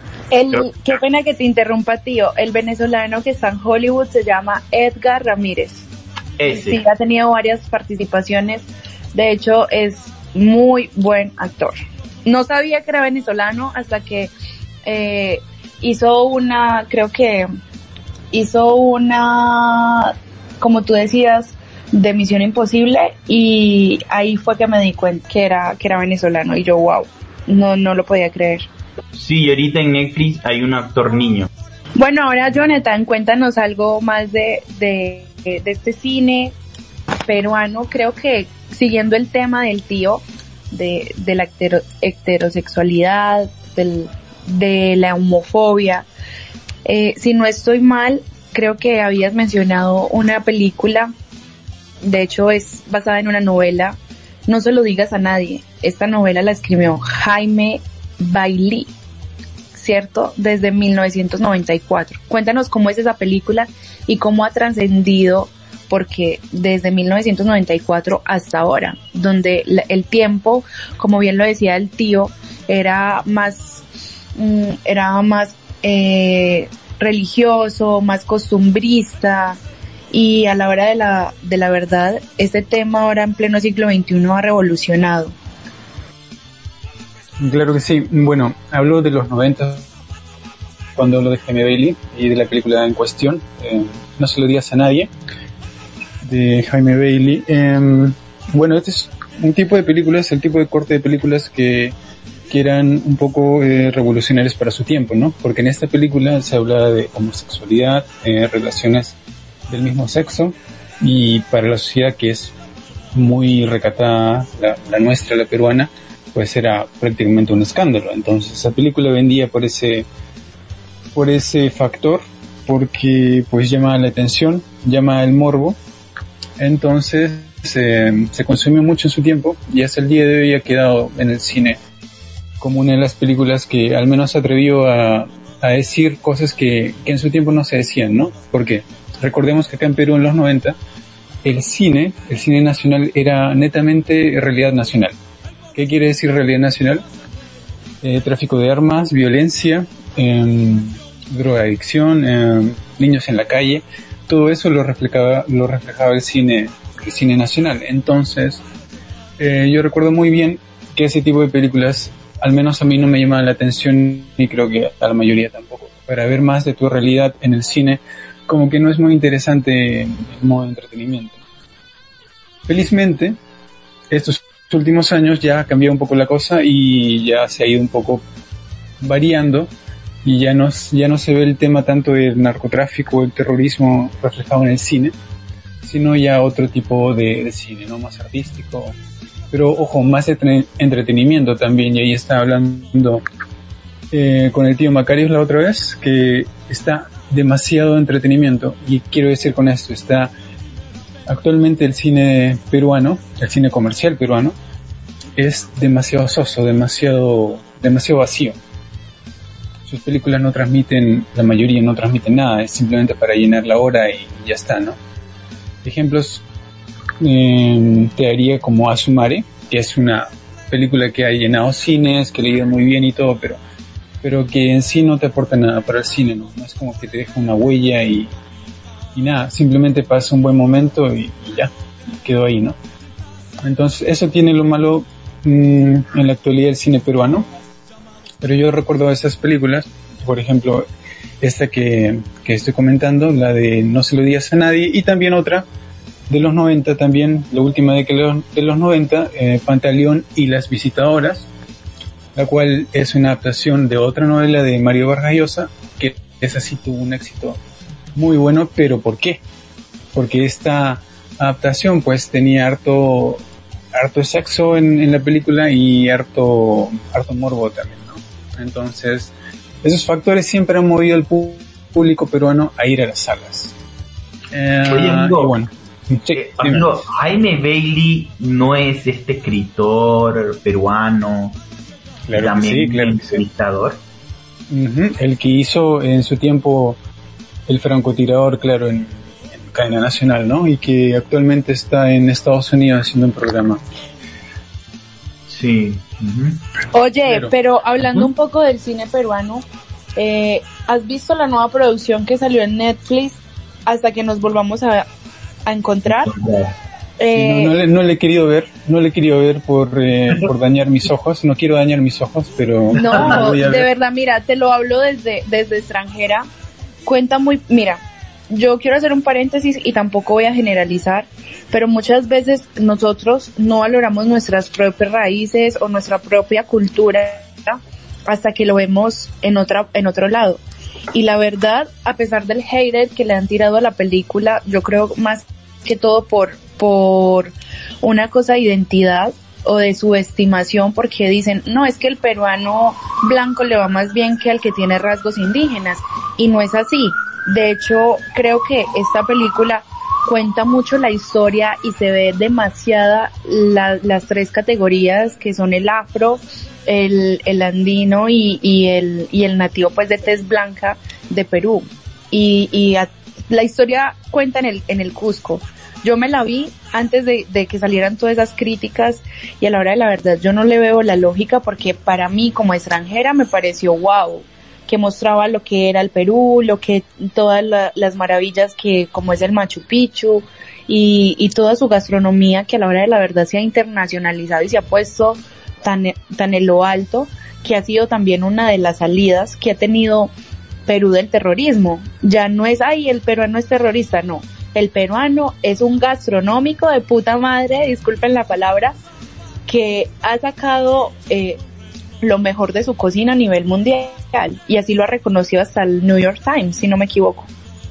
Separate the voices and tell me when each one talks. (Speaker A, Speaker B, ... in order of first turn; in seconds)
Speaker A: 0.3-5.9, 6.5-14.3, 14.8-17.5, 18.3-28.7, 32.0-36.5, 37.2-46.1, 46.8-51.1, 52.0-58.9, 59.7-73.8, 74.3-79.6, 80.1-85.3, 296.9-299.6, 300.1-305.1, 305.6-306.3, 307.2-307.7, 312.9-316.4, 317.1-330.6, 331.1-390.3, 390.9-398.9, 399.7-401.6, 402.2-407.5
Speaker B: 6.4-6.8, 29.1-31.5, 274.9-275.5, 276.3-281.6, 282.3-284.0, 295.5-296.6, 306.2-306.7, 313.1-313.4
Speaker C: 87.4-89.8, 91.0-95.1, 96.2-101.9, 102.5-109.2, 109.7-112.5, 113.1-120.0, 121.1-125.8, 126.6-131.8, 132.6-140.8, 141.4-145.2, 145.7-147.0, 148.0-158.6, 159.4-171.4, 172.7-173.3, 174.1-178.2, 179.0-179.7, 180.2-185.1, 185.8-188.9, 189.5-193.2, 194.1-200.3, 201.3-204.6, 205.3-208.6, 209.8-215.0, 215.8-216.4, 217.2-223.6, 224.2-228.3, 229.1-231.7, 232.2-232.8, 233.6-237.5, 238.4-240.9, 241.4-245.7, 246.3-251.5, 252.3-257.6, 258.1-259.4, 260.1-263.4, 263.9-269.3, 269.8-273.7, 274.5-276.9, 282.3-283.4, 284.7-287.0, 287.7-293.8, 307.3-313.9